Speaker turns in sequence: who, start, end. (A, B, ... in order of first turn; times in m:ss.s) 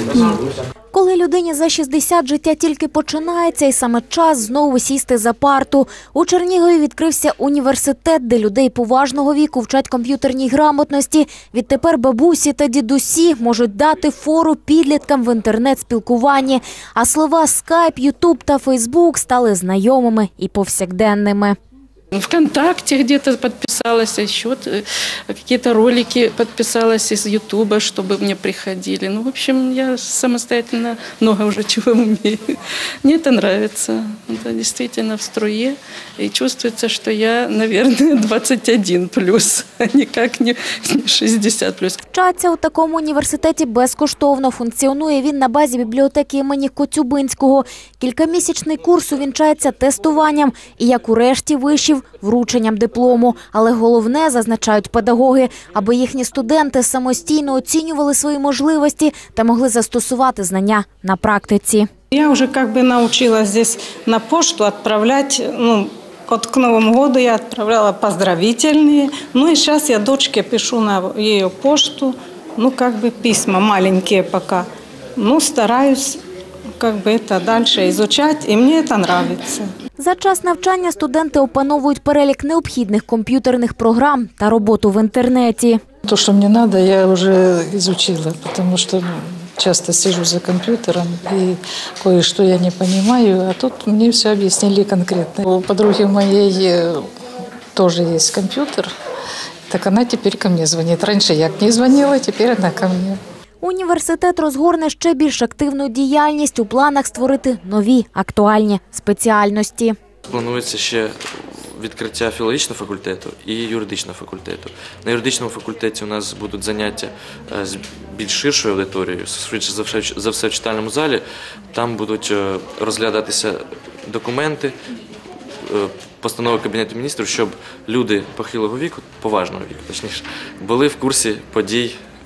0:00.9-0:21.6 A
0:22.2-0:32.4 B
0:33.0-0:42.0 B
0:42.1-1:01.9 A
1:02.1-1:16.2 C
1:16.8-1:19.7 C
1:20.0-1:25.8 A
1:26.0-1:37.0 D
1:37.8-1:38.9 D
1:39.7-1:43.2 D
1:43.6-1:50.0 A
1:50.3-2:04.8 E
2:05.6-2:12.0 E